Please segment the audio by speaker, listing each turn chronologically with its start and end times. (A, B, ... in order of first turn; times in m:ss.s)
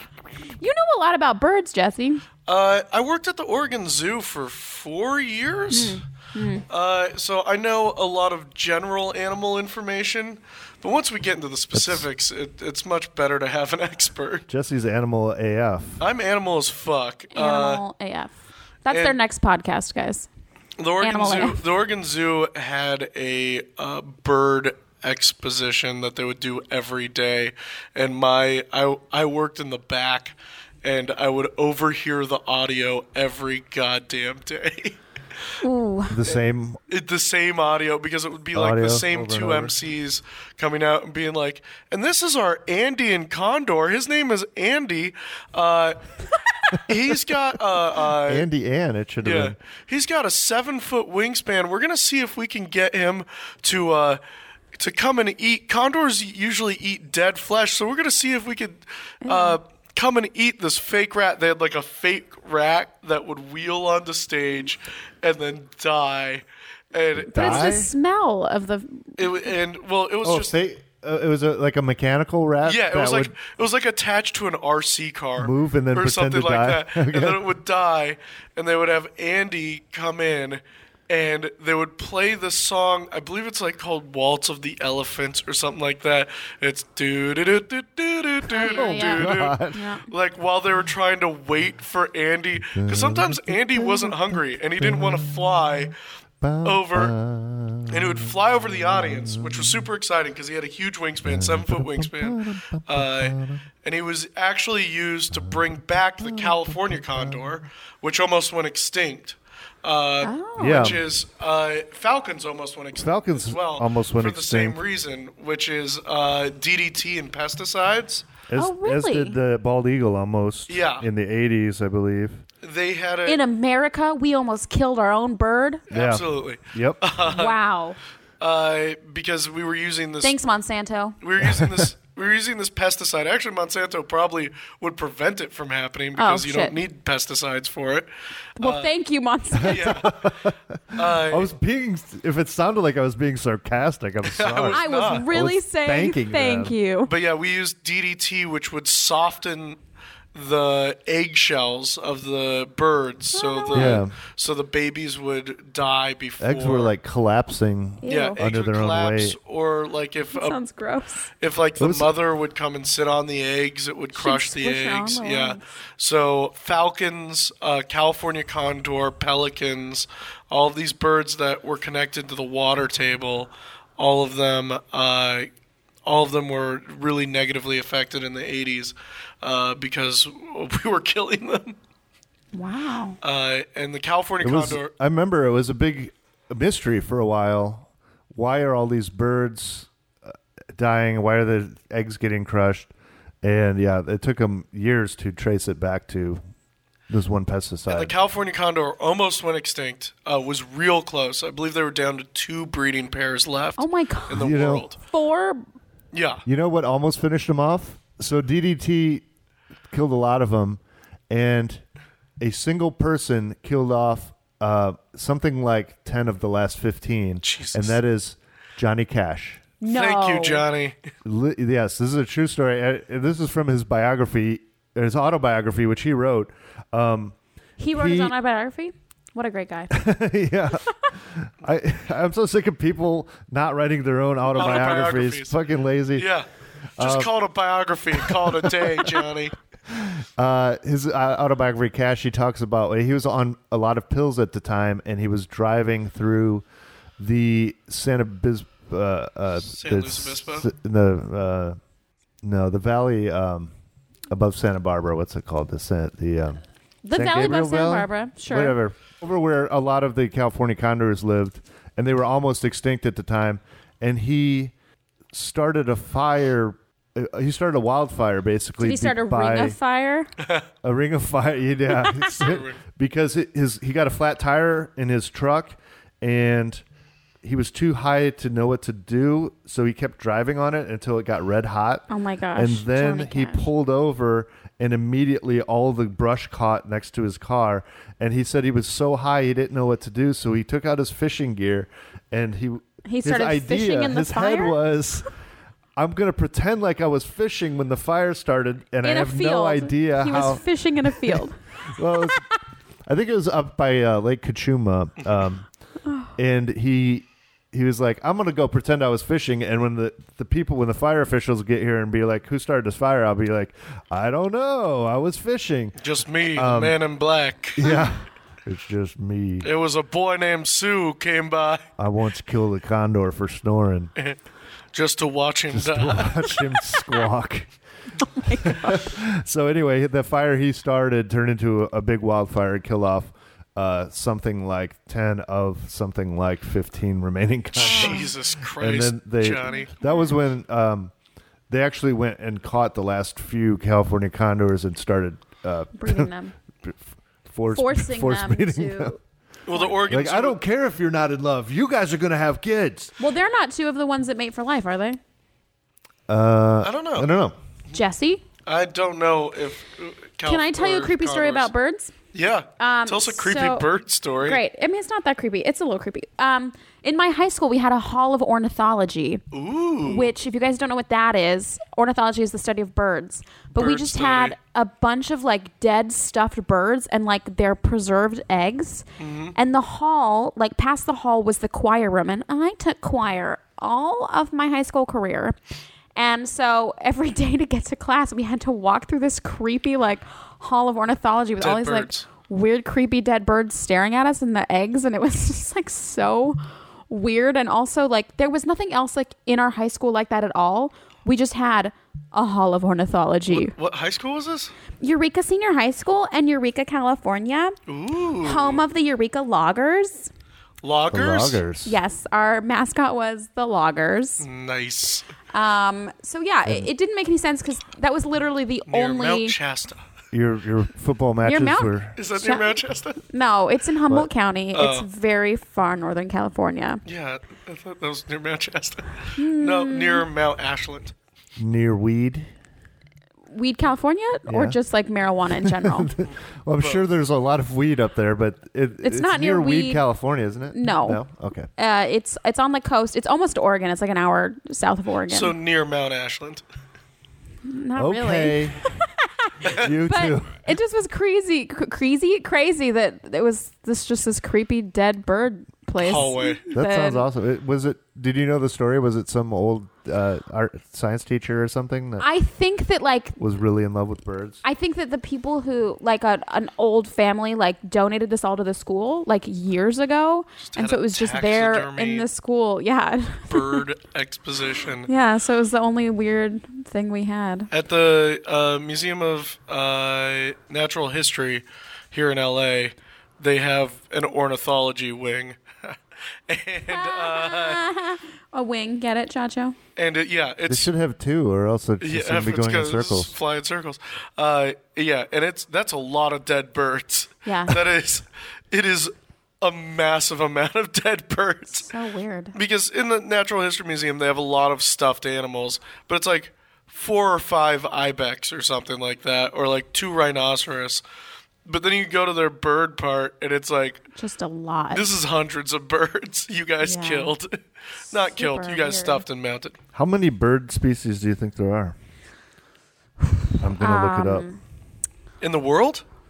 0:00.6-0:02.2 A
0:02.5-0:06.0 B
0:05.7-0:06.6 A
0:06.7-0:14.4 B
0:11.7-0:12.1 C
0:14.5-0:16.0 C
0:16.0-0:17.8 B
0:17.3-0:20.3 A
0:18.9-0:19.2 B
0:20.8-0:35.0 B
0:21.0-0:21.6 A
0:35.6-0:36.2 A
0:36.1-0:36.8 C
0:36.9-0:46.0 B
0:38.5-0:39.8 C
0:46.7-0:48.5 B
0:48.2-0:49.6 C
0:49.2-0:54.2 B
0:54.8-1:07.8 B
0:59.2-0:59.6 A
1:07.2-1:07.9 C
1:07.3-1:09.5 A
1:09.2-1:10.5 B
1:10.2-1:13.3 C
1:12.6-1:36.0 B
1:15.4-1:17.4 C
1:28.5-1:30.1 A
1:28.6-1:29.9 C
1:32.7-1:35.9 C
1:36.4-1:39.9 C
1:36.6-1:37.1 B
1:37.9-1:58.3 B
1:41.2-1:43.6 C
1:45.3-1:45.6 C
1:46.2-1:47.5 C
1:50.2-1:51.0 A
1:50.6-1:51.0 C
1:53.0-1:54.8 C
1:58.5-2:02.4 C
1:58.6-1:59.4 A
2:00.7-2:01.1 B
2:02.6-2:03.4 B
2:03.3-2:05.8 A
2:05.9-2:07.6 B
2:05.9-2:07.0 C
2:07.3-2:08.0 A
2:08.4-2:10.4 B
2:10.2-2:11.2 A
2:11.2-2:18.1 B
2:11.4-2:11.9 C
2:16.2-2:16.8 A
2:18.6-2:18.9 B
2:18.6-2:20.0 A
2:19.6-2:26.8 C
2:19.6-2:20.3 B
2:20.9-2:21.5 B
2:24.2-2:25.3 B
2:24.7-2:27.1 A
2:27.1-2:29.8 B
2:30.4-2:36.9 B
2:33.3-2:34.0 A
2:33.7-2:34.1 C
2:36.4-2:39.4 C
2:38.0-2:38.4 A
2:38.1-2:40.6 B
2:40.3-2:41.3 A
2:41.4-2:55.5 B
2:41.8-2:42.1 C
2:44.2-2:45.6 A
2:56.1-3:01.8 B
3:02.5-3:03.2 A
3:03.2-3:04.9 B
3:04.4-3:09.9 C
3:10.8-3:12.9 C
3:13.4-3:16.4 C
3:17.1-3:18.1 C
3:17.9-3:25.0 B
3:23.8-3:25.6 A
3:24.3-3:24.9 C
3:26.1-3:26.4 B
3:26.4-3:29.2 C
3:29.9-3:31.8 C
3:32.4-3:39.6 C
3:37.4-3:38.0 B
3:39.8-3:40.6 A
3:39.9-3:41.0 B
3:41.2-3:47.4 C
3:47.8-3:50.0 A
3:48.0-3:48.3 C
3:49.9-3:56.3 C
3:54.5-3:55.6 B
3:56.2-3:56.5 B
3:57.0-3:57.3 C
3:57.0-3:59.6 B
3:58.2-3:59.1 C
3:59.9-4:06.6 C
4:07.2-4:11.8 C
4:09.7-4:10.7 B
4:12.4-4:13.7 C
4:14.3-4:16.6 C
4:17.0-4:18.8 A
4:17.1-4:24.7 C
4:25.3-4:29.8 C
4:28.8-4:30.3 A
4:30.8-4:36.8 C
4:32.0-4:32.4 A
4:32.4-4:32.8 B
4:37.4-4:55.3 C
4:42.1-4:43.7 A
4:53.0-4:54.8 A
4:56.0-5:02.5 C
4:59.0-5:01.6 A
5:02.2-5:02.4 A
5:03.1-5:05.7 C
5:06.1-5:06.3 A
5:06.4-5:16.0 C
5:16.0-5:18.0 B
5:16.5-5:17.0 C
5:17.8-5:19.7 C
5:19.6-5:21.8 B
5:22.0-5:24.1 C
5:24.9-5:26.8 B
5:25.7-5:27.7 C
5:28.2-5:29.0 A
5:28.6-5:41.1 C
5:37.8-5:39.9 B
5:37.8-5:38.3 A
5:39.7-5:40.4 A
5:41.7-5:46.3 C
5:46.0-5:46.5 A
5:47.5-5:49.2 C
5:47.7-5:49.2 A
5:49.6-5:50.6 B
5:49.7-5:50.0 A
5:50.1-5:53.1 C
5:53.2-5:55.2 A
5:56.3-5:57.6 C
5:56.8-5:57.4 B
5:57.9-5:58.4 A
5:58.6-6:01.7 B
6:00.4-6:02.1 A
6:02.3-6:04.6 B
6:02.8-6:03.9 A
6:04.4-6:09.4 A
6:09.5-6:10.3 B
6:10.0-6:25.6 A
6:13.8-6:14.6 B
6:19.2-6:19.6 B
6:26.2-6:43.8 A
6:31.6-6:32.2 B
6:43.5-6:44.7 B
6:45.0-6:47.8 A
6:47.9-6:48.8 B
6:48.4-6:50.3 A
6:50.8-6:51.6 B
6:51.1-6:52.0 C
6:51.8-6:54.5 A
6:54.4-6:55.2 B
6:55.5-6:59.6 A
6:58.9-7:00.0 B
7:00.3-7:02.2 C
7:01.4-7:02.8 A
7:02.2-7:03.2 B
7:03.3-7:07.0 A
7:04.7-7:05.1 B
7:07.1-7:11.1 B
7:09.4-7:10.2 A
7:11.6-7:12.5 C
7:13.5-7:16.1 A
7:14.5-7:14.8 C
7:15.6-7:21.7 C
7:19.0-7:20.0 A
7:20.7-7:21.2 A
7:21.8-7:25.5 A
7:25.3-7:26.6 B
7:27.6-7:37.3 A
7:28.0-7:28.9 C
7:29.8-7:30.6 C
7:36.0-7:36.6 B
7:36.7-7:42.2 C
7:42.2-7:43.4 A
7:43.4-7:44.6 C
7:44.6-7:53.8 A
7:50.7-7:52.3 B
7:53.5-7:55.1 B
7:55.1-7:57.7 A
7:57.7-8:06.0 B
8:06.5-8:07.8 B
8:06.9-8:09.8 A
8:10.0-8:10.9 B
8:10.7-8:13.3 C
8:12.0-8:21.9 B
8:17.4-8:17.8 A
8:21.7-8:22.6 A
8:22.5-8:31.0 B
8:31.6-8:34.0 B
8:34.2-8:35.1 A
8:34.9-8:37.6 B
8:36.8-8:37.4 A
8:38.1-8:39.8 B
8:38.1-8:39.2 A
8:39.9-8:42.0 C
8:43.3-8:44.6 A
8:43.6-8:44.4 C
8:45.4-8:46.0 B